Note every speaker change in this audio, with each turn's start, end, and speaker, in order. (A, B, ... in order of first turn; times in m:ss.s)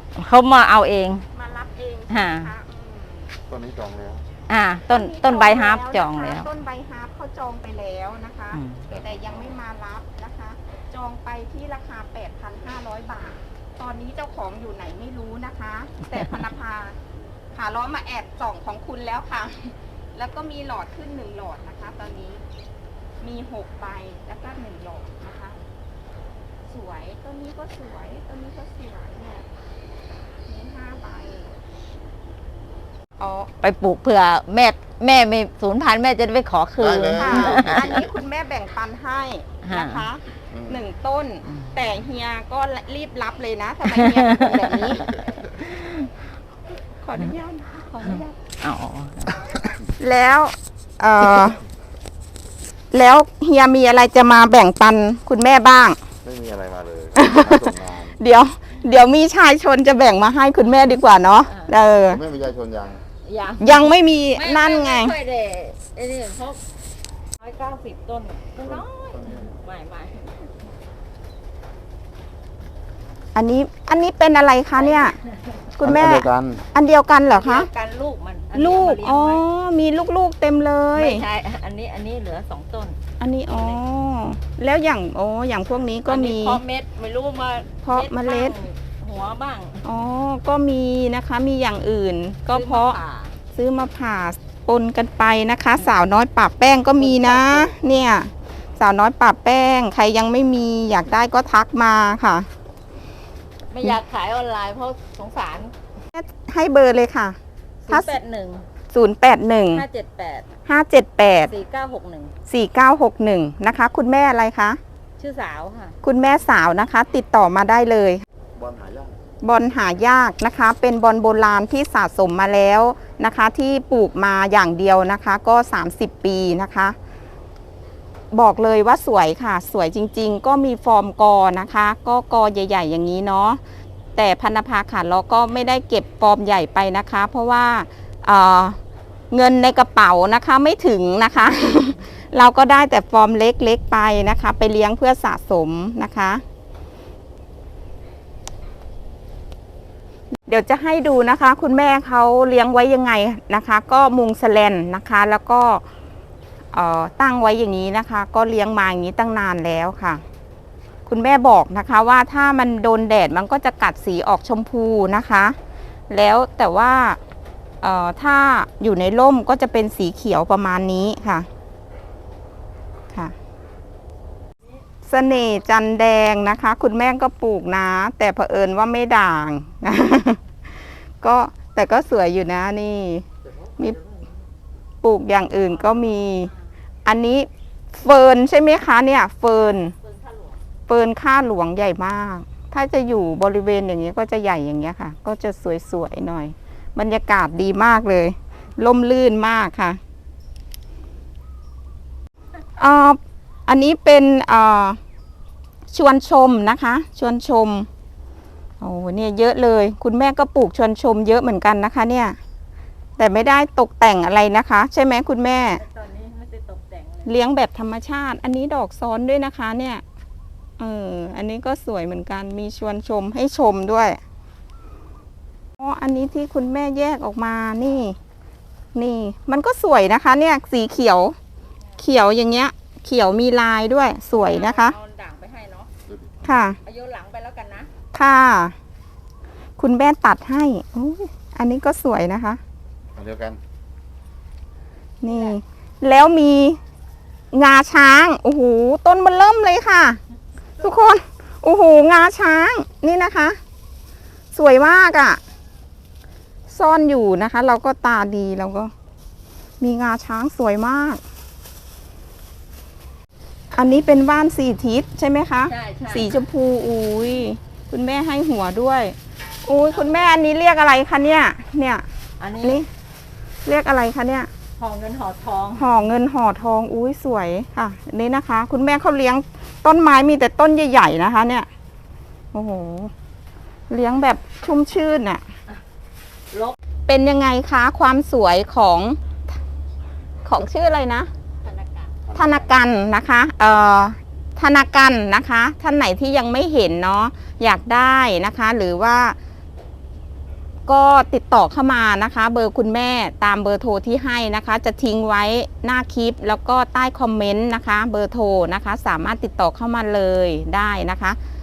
0:00.1-0:01.2 A
0:01.3-0:03.3 B
0:02.1-0:02.5 A
0:03.5-0:04.2 C
0:04.5-0:06.4 A
0:04.9-0:17.0 B
0:08.5-0:08.8 A
0:17.5-0:22.4 B
0:23.2-0:25.6 B
0:26.7-0:29.5 B
0:30.5-0:31.6 B
0:33.2-0:33.5 B
0:33.6-0:37.9 A
0:36.8-0:37.8 C
0:37.1-0:45.2 B
0:39.6-0:40.0 A
0:43.9-0:46.1 A
0:47.0-0:48.4 B
0:48.6-0:49.6 A
0:50.0-0:51.6 B
0:52.9-0:56.0 B
0:56.2-0:58.2 C
0:57.1-1:02.2 B
1:02.1-1:03.0 C
1:03.2-1:03.8 A
1:03.6-1:05.1 B
1:04.4-1:06.6 A
1:07.4-1:10.4 A
1:13.3-1:15.2 B
1:14.8-1:15.4 A
1:15.8-1:17.7 B
1:15.8-1:16.6 C
1:17.3-1:19.4 A
1:18.5-1:21.2 B
1:20.9-1:23.0 A
1:23.2-1:26.6 B
1:23.5-1:23.8 A
1:26.1-1:29.8 A
1:27.8-1:28.5 B
1:29.8-1:33.0 B
1:32.5-1:33.3 A
1:33.5-1:42.5 B
1:37.0-1:37.7 A
1:43.7-1:45.7 A
1:46.1-1:47.4 B
1:47.8-1:48.6 A
1:47.9-1:48.1 B
1:48.9-1:49.8 B
1:49.7-1:50.5 A
1:50.6-1:51.5 B
1:51.4-1:52.3 A
1:52.5-1:54.8 B
1:55.2-1:56.0 A
1:56.0-1:58.2 B
1:58.6-1:59.2 C
1:59.4-2:07.0 B
2:08.3-2:13.6 B
2:14.2-2:18.8 B
2:19.3-2:26.4 B
2:30.5-2:35.8 B
2:36.7-2:40.2 B
2:41.1-2:45.6 B
2:46.1-2:47.2 B
2:47.8-2:51.5 B
2:55.0-3:03.2 B
3:05.0-3:06.5 B
3:05.6-3:06.6 A
3:07.0-3:09.9 B
3:09.7-3:10.6 A
3:10.9-3:20.0 B
3:22.8-3:25.0 B
3:25.9-3:27.9 B
3:28.8-3:32.4 B
3:33.2-3:35.8 B
3:35.7-3:37.3 A
3:37.2-3:40.0 B
3:40.8-3:44.2 B
3:45.8-3:48.2 B
3:48.9-3:51.4 B
3:52.0-3:54.9 B
3:54.3-3:55.9 A
3:56.1-3:56.4 C
3:56.4-3:56.8 B
3:56.8-3:57.9 A
3:58.1-3:58.7 B
3:59.8-4:02.6 B
4:03.2-4:03.6 C
4:05.2-4:06.8 B
4:05.2-4:05.6 A
4:07.5-4:10.2 B
4:10.8-4:13.6 B
4:14.5-4:15.4 B
4:16.7-4:18.9 B
4:19.8-4:21.2 B
4:23.7-4:32.0 B
4:25.7-4:26.4 A
4:32.4-4:32.8 A
4:32.6-4:32.9 B
4:33.6-4:34.5 B
4:34.8-4:35.9 A
4:35.7-4:41.7 B
4:42.5-4:43.1 B
4:43.9-4:45.4 B
4:47.1-4:49.2 B
4:50.4-4:51.3 B
4:51.6-4:52.1 A
4:52.3-4:52.6 C
4:52.3-4:59.4 B
5:00.9-5:11.4 B